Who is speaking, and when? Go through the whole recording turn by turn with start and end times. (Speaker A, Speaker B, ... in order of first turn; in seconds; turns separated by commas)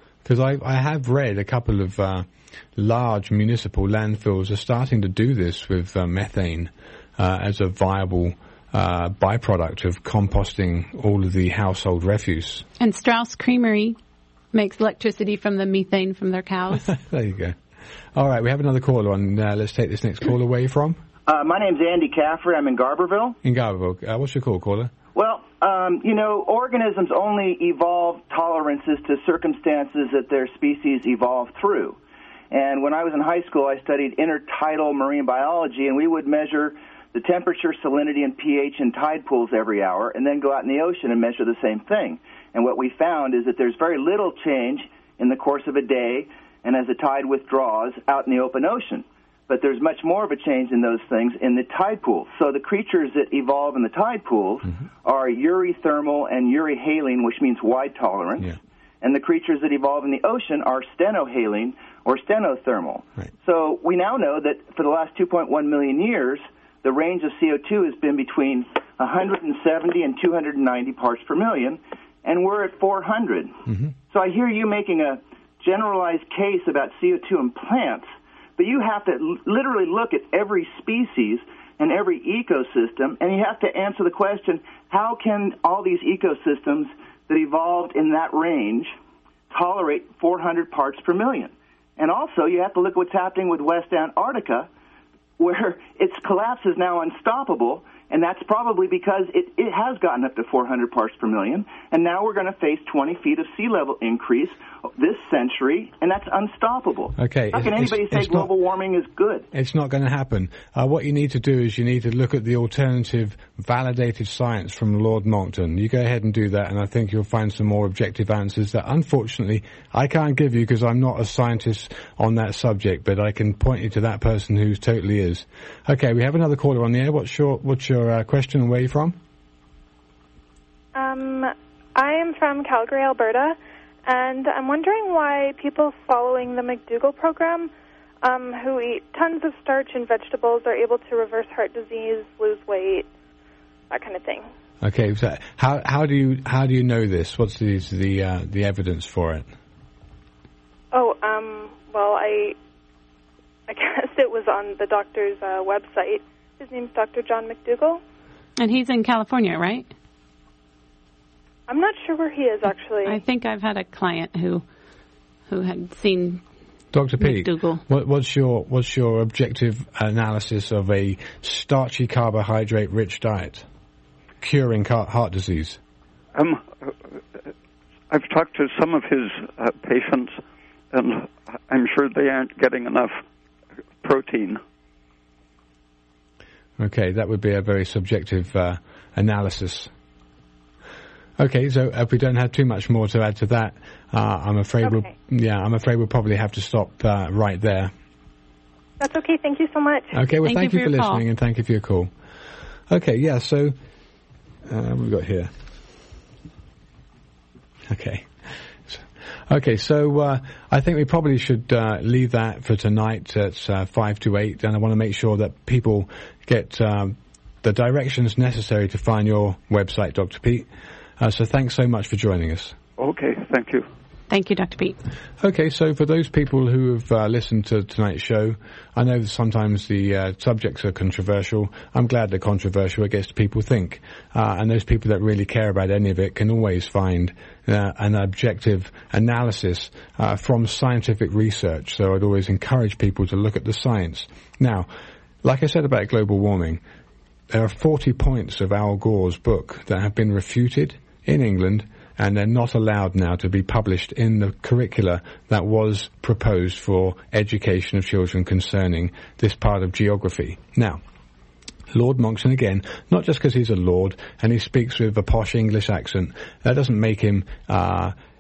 Speaker A: 0.2-12.7, Speaker B: 12.8-14.0, Speaker B: 14.5-16.9, Speaker A: 16.7-17.6, Speaker A: 18.1-21.0, Speaker C: 21.3-23.4, Speaker A: 23.4-24.9, Speaker C: 25.1-32.0, Speaker C: 32.5-88.9, Speaker A: 73.7-73.9, Speaker C: 89.5-94.7, Speaker C: 95.4-109.5, Speaker A: 107.2-108.5, Speaker A: 109.5-129.2, Speaker D: 130.9-137.7, Speaker D: 138.2-143.1, Speaker D: 143.9-144.5, Speaker A: 144.8-149.5, Speaker D: 150.9-152.6, Speaker D: 153.7-158.0, Speaker B: 158.6-159.9, Speaker D: 161.7-163.2, Speaker B: 163.1-164.7, Speaker B: 165.5-166.4, Speaker A: 166.9-173.7, Speaker B: 167.2-167.8, Speaker A: 174.4-175.8, Speaker E: 176.3-177.5, Speaker E: 178.1-180.4, Speaker E: 180.9-183.2, Speaker E: 184.0-184.6, Speaker A: 186.8-189.9, Speaker A: 191.4-197.9, Speaker D: 194.8-195.1, Speaker D: 199.0-200.1, Speaker A: 200.1-202.1, Speaker B: 200.4-201.2, Speaker A: 202.9-203.8, Speaker A: 204.7-205.5, Speaker A: 207.9-220.7, Speaker A: 221.2-222.8, Speaker E: 223.0-223.9, Speaker B: 224.3-225.0, Speaker A: 225.4-244.9, Speaker A: 245.4-246.8, Speaker A: 247.5-261.0, Speaker A: 261.9-268.1